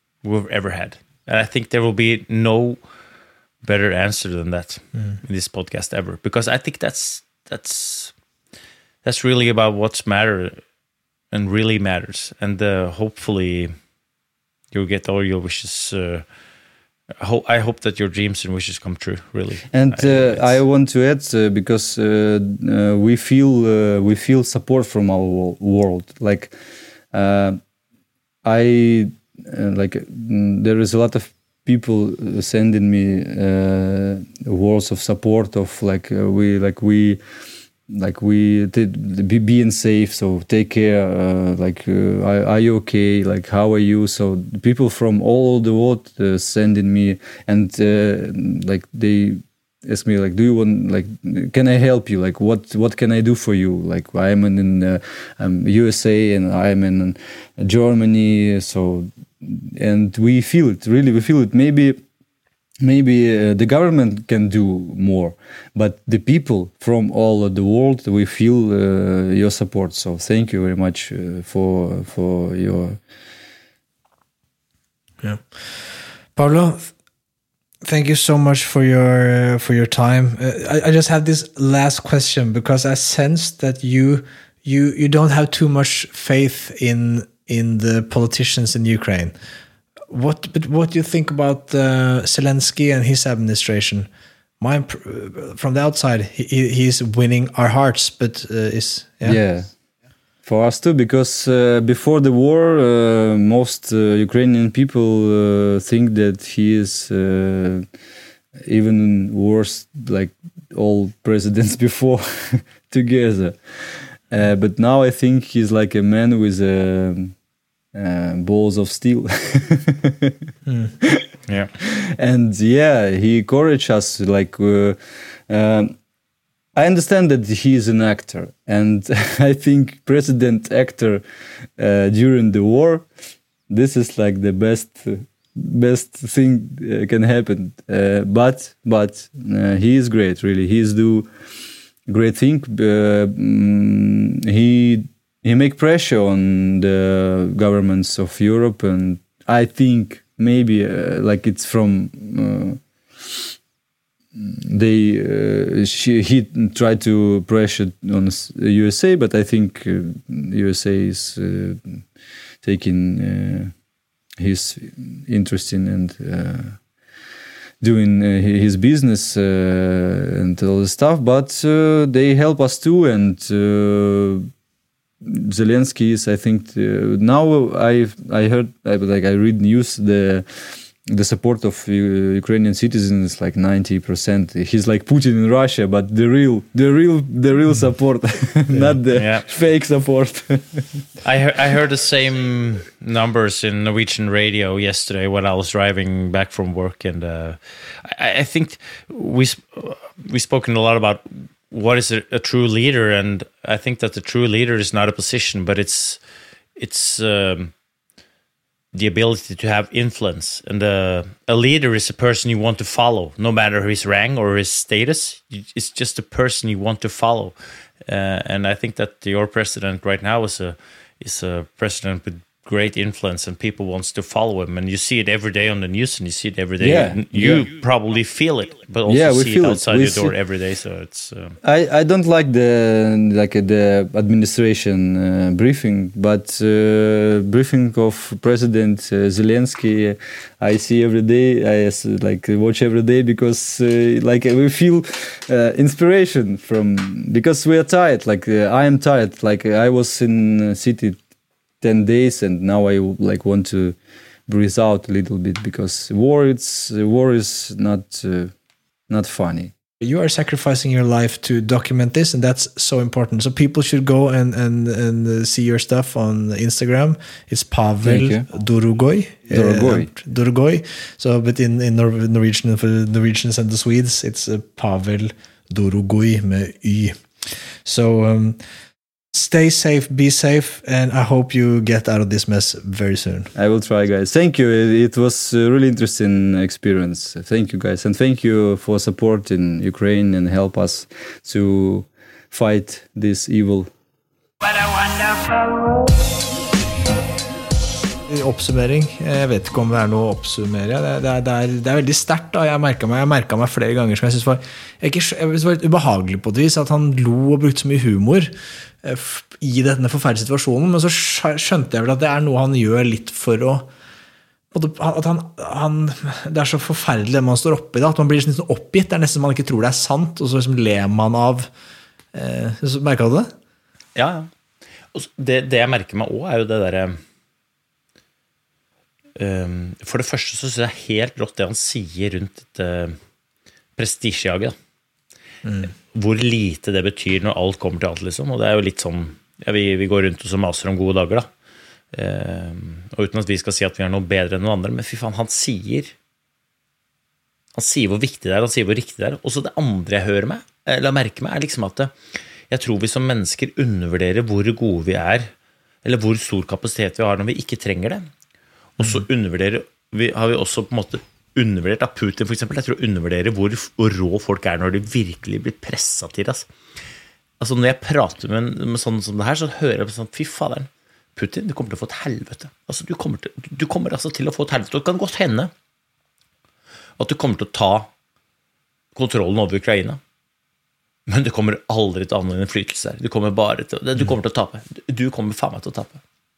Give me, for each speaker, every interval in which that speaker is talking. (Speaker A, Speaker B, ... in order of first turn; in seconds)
Speaker A: 0.2-2.8, 3.6-8.1, 9.0-10.6, 11.3-13.8, 14.7-16.3, 17.2-20.6, 189.1-189.5, 191.2-206.2, 206.8-207.7, 208.9-231.6, 324.2-324.5, 325.1-327.2, 329.4-333.2, 334.0-334.8, 335.9-341.5, 342.1-346.1, 347.8-352.1, 352.7-355.5, 356.0-358.3, 359.0-366.7, 367.6-375.7, 377.2-378.1, 379.1-380.2, 381.3-386.2
Speaker B: 19.7-26.6, 27.1-27.6, 28.4-37.2, 37.9-62.0, 62.8-73.0, 99.2-99.7, 100.5-107.9, 108.6-117.4, 117.9-121.3, 121.8-126.0, 126.8-133.1, 133.7-141.3, 142.1-153.6, 154.3-162.1, 162.6-163.7, 164.4-166.8, 167.8-174.5, 175.2-191.1, 226.8-227.7, 229.1-230.3, 231.6-251.2, 251.8-254.0, 254.5-258.5, 259.1-259.7, 268.0-268.5, 269.5-270.1, 283.6-293.9
Speaker C: 75.2-76.9, 77.8-89.3, 90.1-94.1, 94.6-99.4, 120.7-121.0, 188.7-189.0, 260.0-278.6, 279.3-283.5, 298.3-313.9, 314.7-321.7, 322.3-323.5, 335.6-335.9, 359.0-359.2
Speaker D: 294.6-297.5